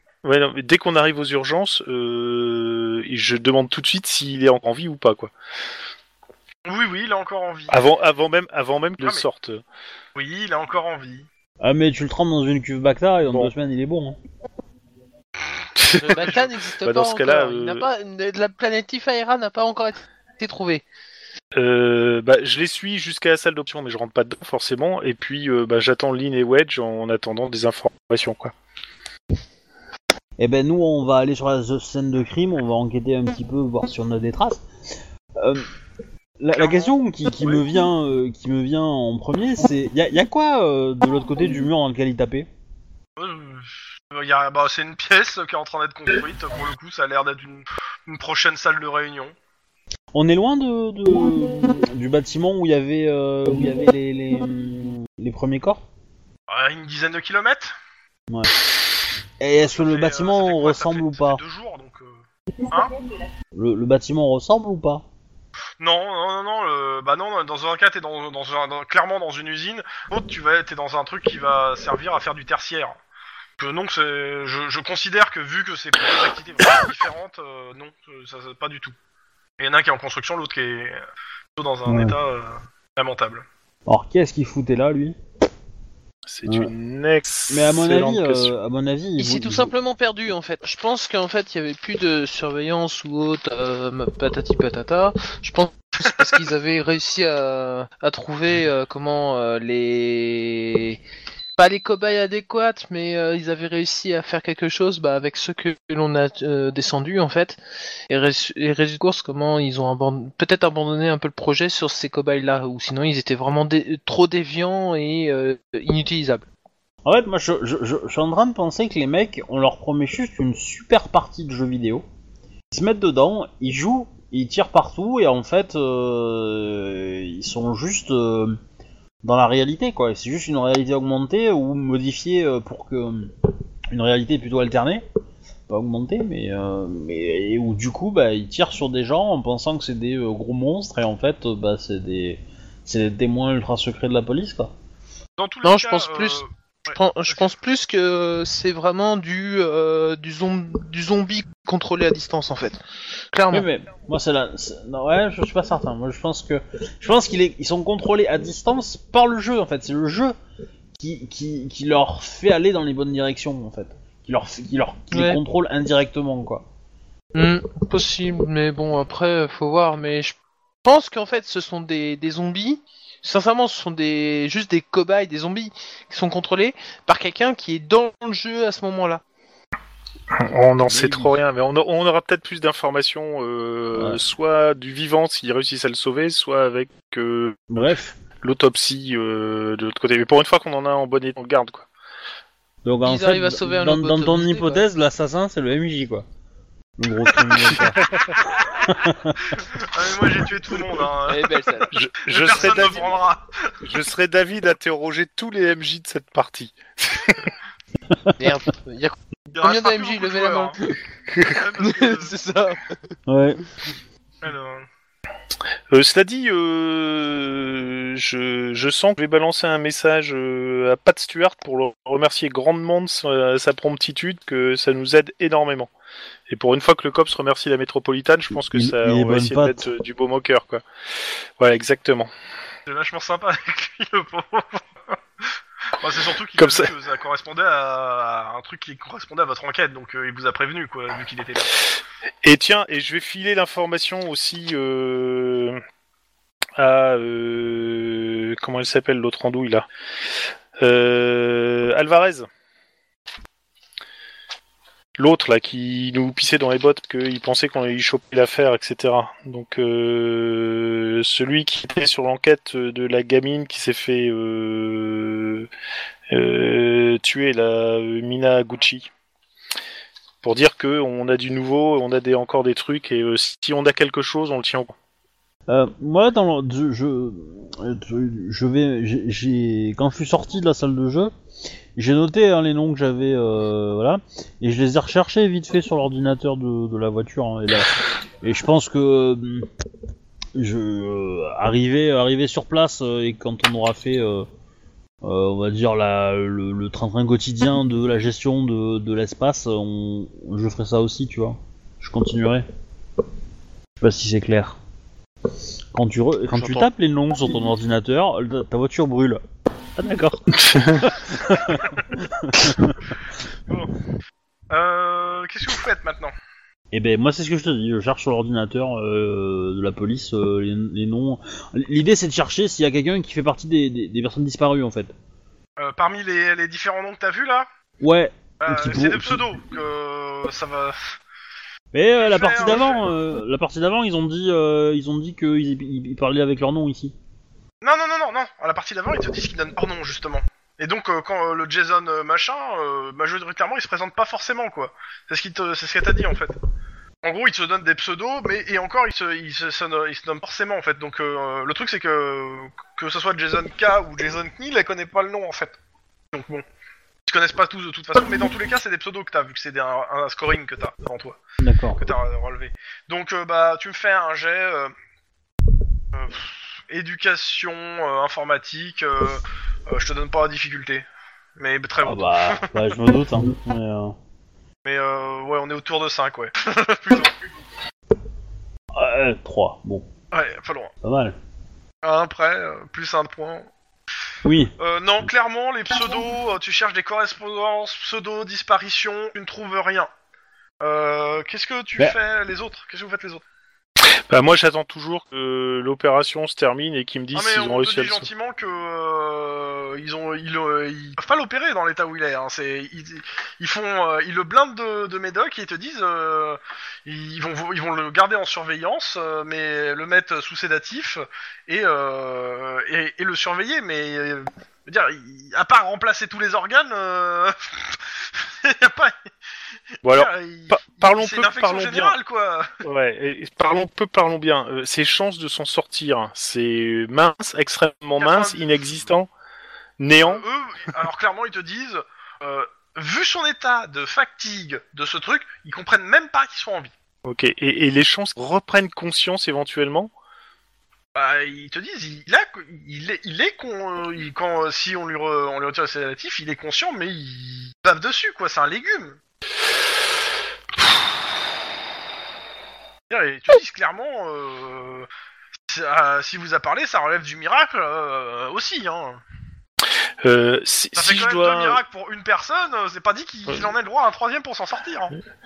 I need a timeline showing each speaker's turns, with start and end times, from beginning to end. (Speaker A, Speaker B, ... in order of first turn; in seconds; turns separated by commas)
Speaker A: 0.2-5.3, Speaker B: 6.7-7.8, Speaker A: 7.7-9.6, Speaker B: 10.1-11.3, Speaker C: 11.6-14.2, Speaker A: 13.2-13.5, Speaker A: 15.8-17.9, Speaker D: 15.9-20.8, Speaker B: 16.1-16.5, Speaker A: 21.5-28.5, Speaker C: 30.4-34.6, Speaker C: 35.4-35.7, Speaker C: 36.4-42.5, Speaker B: 36.5-37.6, Speaker B: 43.2-49.3, Speaker C: 50.1-55.8, Speaker B: 56.5-57.7, Speaker C: 58.3-58.5, Speaker C: 59.4-61.4, Speaker B: 59.7-62.9, Speaker C: 63.5-65.0, Speaker B: 65.8-73.0, Speaker B: 73.6-78.9, Speaker B: 79.6-81.0, Speaker B: 81.5-83.4, Speaker C: 81.9-82.2, Speaker C: 83.9-85.2, Speaker A: 86.3-88.5, Speaker C: 86.5-86.7, Speaker C: 87.5-89.7, Speaker D: 89.2-101.0, Speaker D: 101.6-116.5, Speaker C: 117.0-122.0, Speaker C: 122.7-128.6, Speaker C: 129.2-133.3, Speaker C: 133.9-135.0, Speaker C: 135.7-144.7, Speaker B: 145.4-147.4, Speaker D: 145.6-152.8, Speaker D: 153.3-153.7, Speaker C: 153.5-160.3, Speaker C: 161.0-166.6, Speaker D: 165.1-165.4, Speaker D: 167.3-179.2, Speaker A: 180.4-187.7, Speaker C: 180.8-181.4, Speaker C: 183.9-184.2, Speaker C: 187.7-188.2, Speaker A: 188.4-191.9, Speaker C: 192.8-196.2, Speaker D: 193.0-194.8, Speaker C: 197.0-198.1, Speaker C: 198.8-199.4, Speaker B: 199.5-201.6, Speaker D: 201.3-201.9, Speaker A: 201.9-203.2, Speaker B: 202.3-203.7, Speaker A: 203.8-207.5, Speaker D: 208.4-211.0, Speaker B: 209.5-210.8, Speaker B: 211.4-212.3, Speaker D: 211.8-213.1, Speaker C: 213.3-213.6, Speaker B: 214.4-214.9, Speaker A: 215.9-225.9, Speaker A: 226.5-230.8, Speaker C: 228.7-229.8, Speaker A: 231.6-232.3, Speaker B: 232.9-241.7, Speaker A: 236.6-236.9, Speaker A: 242.4-245.8, Speaker A: 246.8-249.8, Speaker A: 250.8-252.4, Speaker A: 255.2-265.7, Speaker A: 266.3-269.1, Speaker A: 270.4-274.9, Speaker C: 275.7-281.3, Speaker C: 281.9-289.7, Speaker C: 290.6-294.4, Speaker C: 295.2-302.6, Speaker C: 304.0-304.8, Speaker C: 305.9-309.4, Speaker D: 306.6-306.8, Speaker C: 310.0-312.9, Speaker A: 310.5-311.1, Speaker B: 311.7-311.9, Speaker B: 313.7-313.9, Speaker B: 314.7-316.3, Speaker C: 316.9-325.1, Speaker B: 325.8-327.7, Speaker C: 328.0-329.4, Speaker B: 328.6-331.0, Speaker C: 331.9-337.1, Speaker B: 332.2-333.0, Speaker B: 337.8-346.6, Speaker B: 347.2-355.8, Speaker B: 356.3-356.6, Speaker B: 357.2-361.4, Speaker C: 361.6-362.0, Speaker B: 361.9-364.9, Speaker B: 366.1-371.1, Speaker B: 371.6-372.8, Speaker C: 372.0-374.1, Speaker B: 374.8-377.3, Speaker C: 378.9-380.1, Speaker B: 380.3-380.9, Speaker C: 381.0-381.4, Speaker B: 382.0-383.7, Speaker C: 384.4-384.7, Speaker B: 384.8-390.1, Speaker B: 390.8-393.4, Speaker A: 394.1-398.3, Speaker B: 397.3-419.1, Speaker A: 420.0-422.1, Speaker B: 420.0-422.7, Speaker A: 422.8-429.3, Speaker B: 428.2-428.7, Speaker A: 430.0-430.4, Speaker B: 430.2-436.9, Speaker A: 437.2-440.1, Speaker B: 441.1-449.2, Speaker B: 453.1-455.1, Speaker B: 455.7-459.2, Speaker A: 460.2-461.8, Speaker B: 460.9-465.1